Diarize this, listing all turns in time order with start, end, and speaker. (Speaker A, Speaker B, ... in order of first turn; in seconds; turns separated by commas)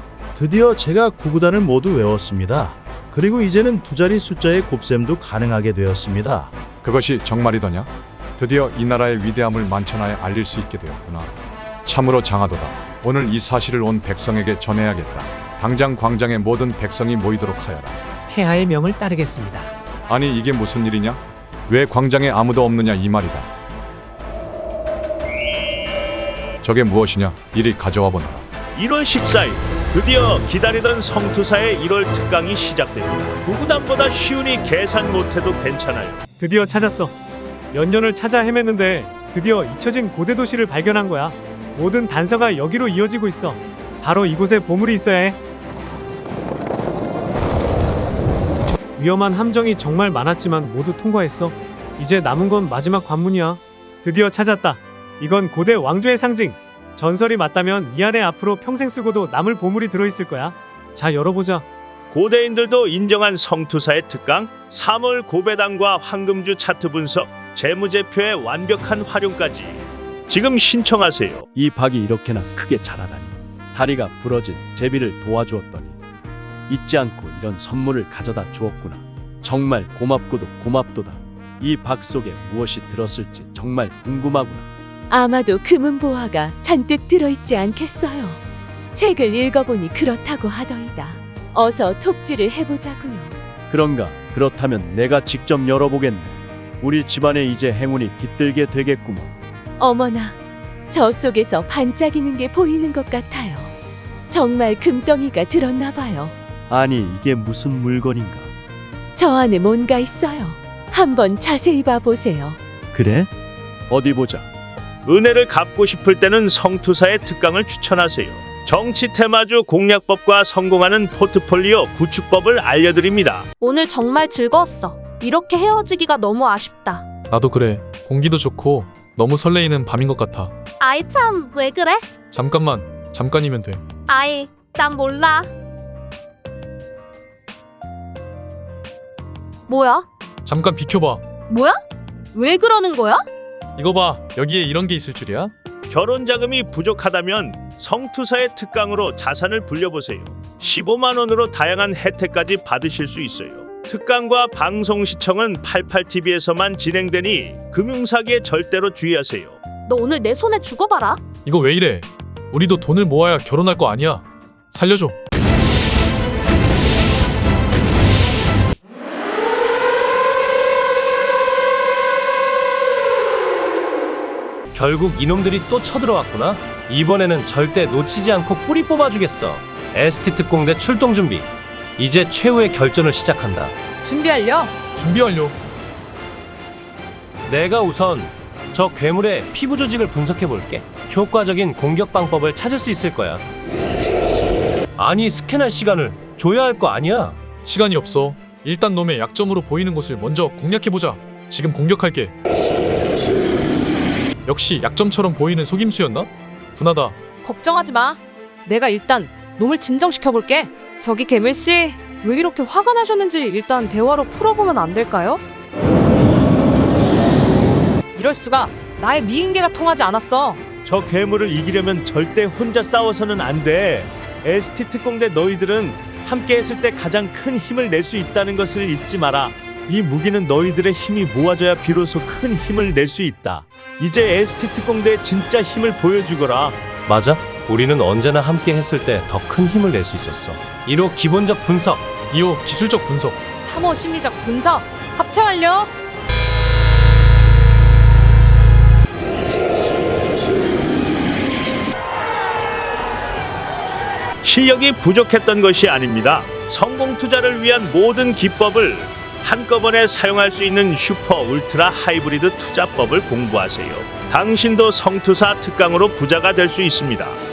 Speaker A: 0.3-6.5, Speaker B: 6.8-11.3, Speaker B: 11.8-18.0, Speaker C: 18.3-18.6, Speaker C: 19.2-19.7, Speaker B: 20.1-23.5, Speaker B: 26.6-28.5, Speaker D: 28.8-36.2, Speaker C: 36.4-37.1, Speaker C: 37.7-45.4, Speaker C: 49.0-61.6, Speaker D: 62.1-71.4, Speaker E: 71.5-76.0, Speaker E: 76.7-84.7, Speaker F: 85.1-88.4, Speaker F: 88.9-93.3, Speaker E: 93.7-99.3, Speaker F: 99.8-100.4, Speaker F: 100.9-103.7, Speaker F: 104.3-106.3, Speaker E: 106.7-108.5, Speaker F: 109.1-112.6, Speaker E: 112.9-113.3, Speaker E: 113.9-114.5, Speaker D: 115.0-123.5, Speaker G: 123.6-127.0, Speaker H: 127.3-130.5, Speaker G: 130.8-132.1, Speaker H: 132.3-133.8, Speaker G: 134.1-135.5, Speaker G: 139.7-140.1, Speaker H: 140.4-141.2, Speaker G: 141.5-141.8, Speaker G: 142.3-143.2, Speaker H: 143.8-145.5, Speaker D: 145.9-159.6, Speaker G: 159.9-161.2, Speaker H: 161.4-165.2, Speaker I: 174.7-181.5, Speaker I: 182.0-183.8, Speaker J: 184.0-184.7, Speaker H: 185.0-185.6, Speaker I: 187.5-193.4, Speaker I: 195.0-197.4, Speaker H: 197.6-202.3, Speaker H: 204.5-207.2, Speaker J: 207.5-215.4, Speaker J: 218.2-220.6, Speaker D: 220.8-236.8, Speaker I: 237.1-242.1, Speaker H: 242.3-243.4, Speaker J: 243.7-245.9, Speaker D: 254.4-267.4